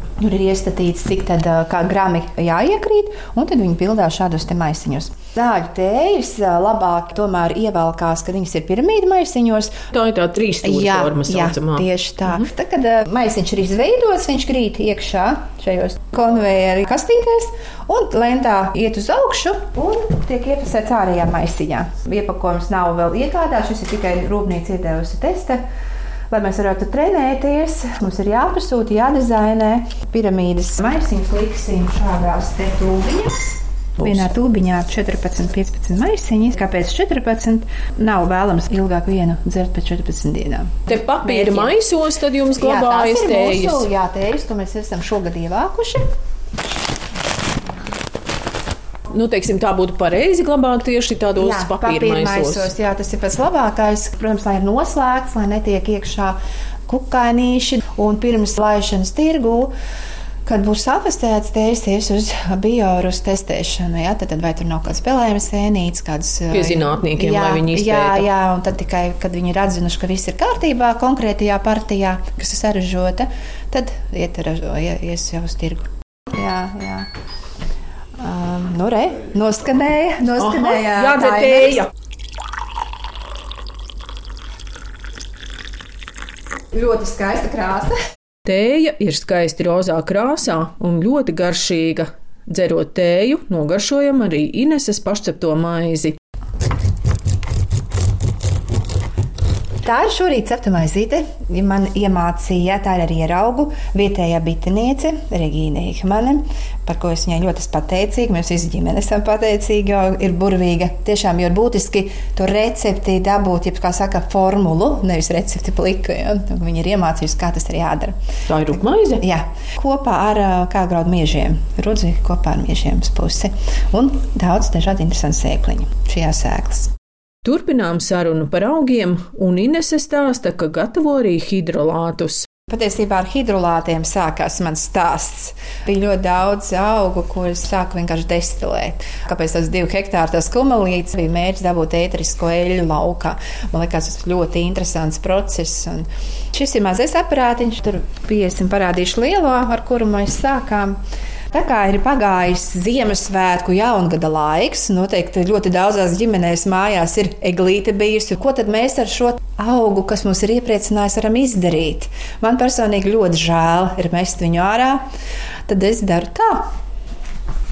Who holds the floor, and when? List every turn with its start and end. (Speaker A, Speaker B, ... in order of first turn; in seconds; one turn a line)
Speaker A: 0.2-9.8
Speaker B: 9.9-12.4
Speaker A: 10.6-25.6
Speaker A: 26.3-41.8
Speaker B: 40.9-43.9
Speaker A: 42.5-46.1
Speaker A: 47.6-47.9
Speaker B: 49.1-52.7
Speaker A: 51.4-59.7
Speaker A: 60.4-77.1
Speaker B: 66.5-68.3
Speaker A: 78.2-81.9
Speaker B: 80.4-81.9
Speaker A: 86.7-88.0
Speaker B: 88.5-96.2
Speaker A: 99.8-118.1
Speaker B: 118.5-119.2
Speaker A: 119.2-126.9
Speaker B: 127.4-132.4
Speaker A: 132.7-151.0
Speaker A: 151.5-165.0
Speaker A: 165.7-166.7